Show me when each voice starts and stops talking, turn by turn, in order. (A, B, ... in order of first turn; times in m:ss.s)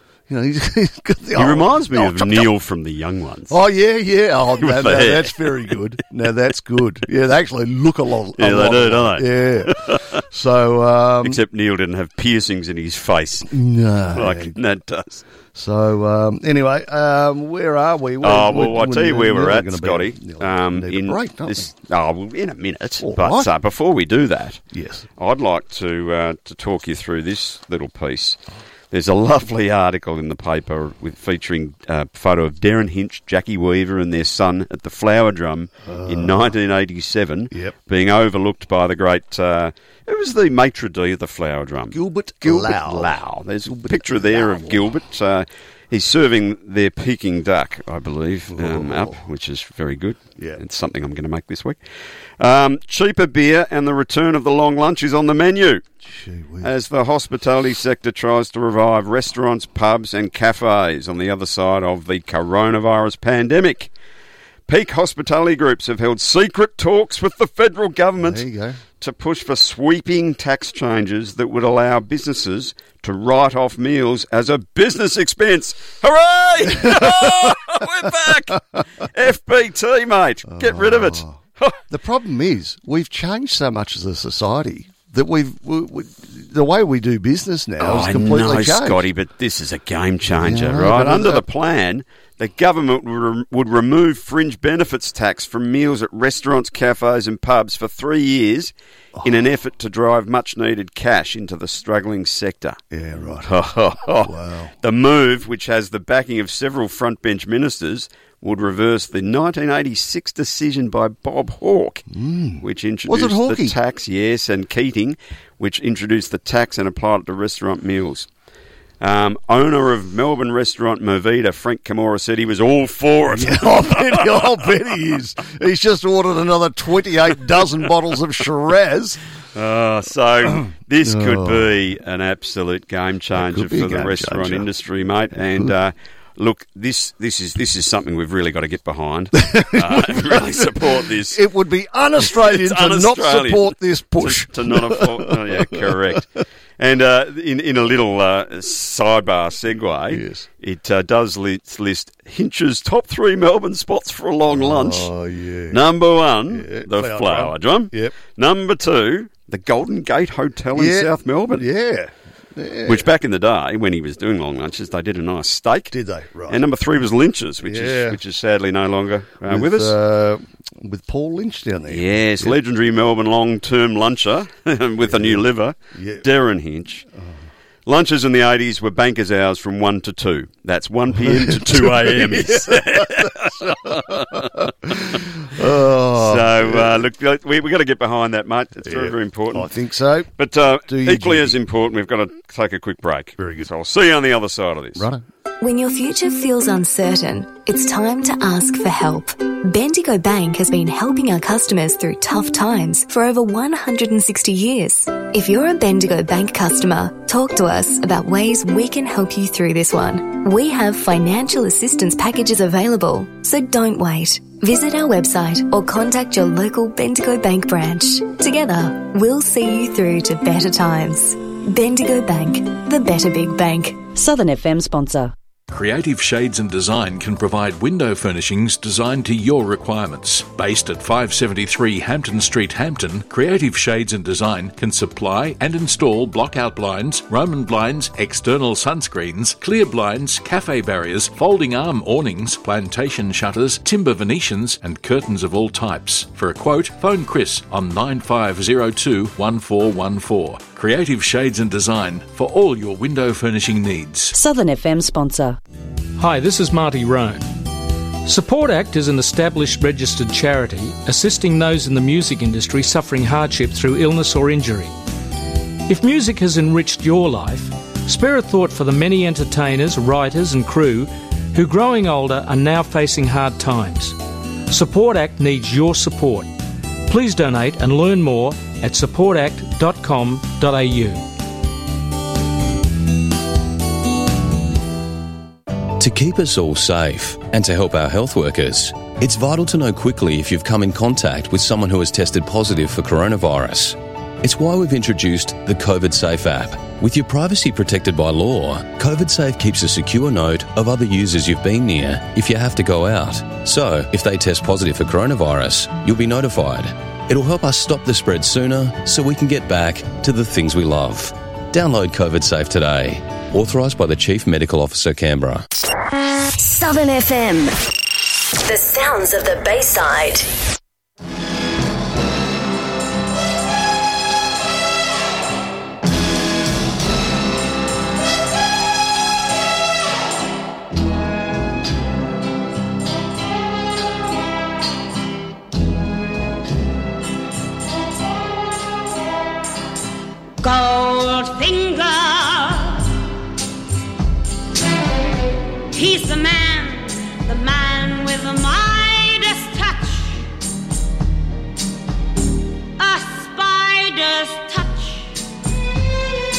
0:00.3-0:02.5 A
0:01.3-0:03.6 B
0:03.5-0:11.4 A
0:04.6-0:05.7 B
0:08.4-0:10.1 B
0:11.2-0:13.5 B
0:13.5-0:14.6 A
0:14.1-0:15.2 B
0:15.5-0:21.7 A
0:18.2-0:24.6 B
0:23.0-0:23.5 A
0:24.7-0:25.0 A
0:25.2-0:28.4 B
0:28.9-0:51.8 B
0:35.8-0:36.5 A
0:41.9-0:44.8 A
0:48.5-0:49.2 A
0:52.4-0:55.8 B
0:56.0-0:56.7 A
0:56.6-1:03.9 B
1:04.7-1:08.4 B
1:08.2-1:08.8 A
1:09.0-1:21.8 B
1:16.6-1:18.6 A
1:20.5-1:21.4 A
1:21.9-1:29.0 A
1:27.8-1:42.8 B
1:30.3-1:31.4 A
1:39.2-1:39.4 A
1:42.9-1:43.5 A
1:43.4-1:52.0 B
1:44.2-1:44.7 A
1:52.1-1:53.8 A
1:52.6-1:58.3 B
1:59.0-2:04.7 B
2:03.3-2:09.2 A
2:09.5-2:21.4 B
2:10.5-2:11.8 A
2:13.3-2:14.7 A
2:15.3-2:15.7 A
2:19.4-2:26.2 A
2:22.2-2:26.2 B
2:26.8-2:35.1 B
2:30.1-2:30.4 A
2:34.5-2:35.8 A
2:35.7-2:41.6 B
2:36.5-2:38.1 A
2:40.7-2:43.1 A
2:42.9-2:45.9 B
2:45.9-2:46.6 A
2:46.5-2:49.9 B
2:47.6-2:48.2 A
2:49.4-2:52.6 A
2:51.9-2:57.0 B
2:55.0-2:56.2 A
2:57.1-2:57.4 A
2:57.8-3:05.2 B
3:01.1-3:07.1 A
3:06.1-3:09.7 B
3:08.8-3:10.3 A
3:10.4-3:15.0 B
3:10.9-3:11.6 A
3:13.4-3:13.7 A
3:15.0-3:15.2 A
3:15.6-3:44.0 C
3:44.1-3:45.3 D
3:45.7-4:14.3 E
4:14.3-4:15.6 D
4:16.2-4:17.5 F
4:18.2-4:24.9 F
4:25.9-4:36.5 F
4:37.1-4:41.2 F
4:46.0-5:15.7 G
5:16.6-5:17.7 H
5:18.6-5:20.5 H
5:40.6-5:43.1 I
5:45.9-5:50.4 I
5:53.0-5:55.4 I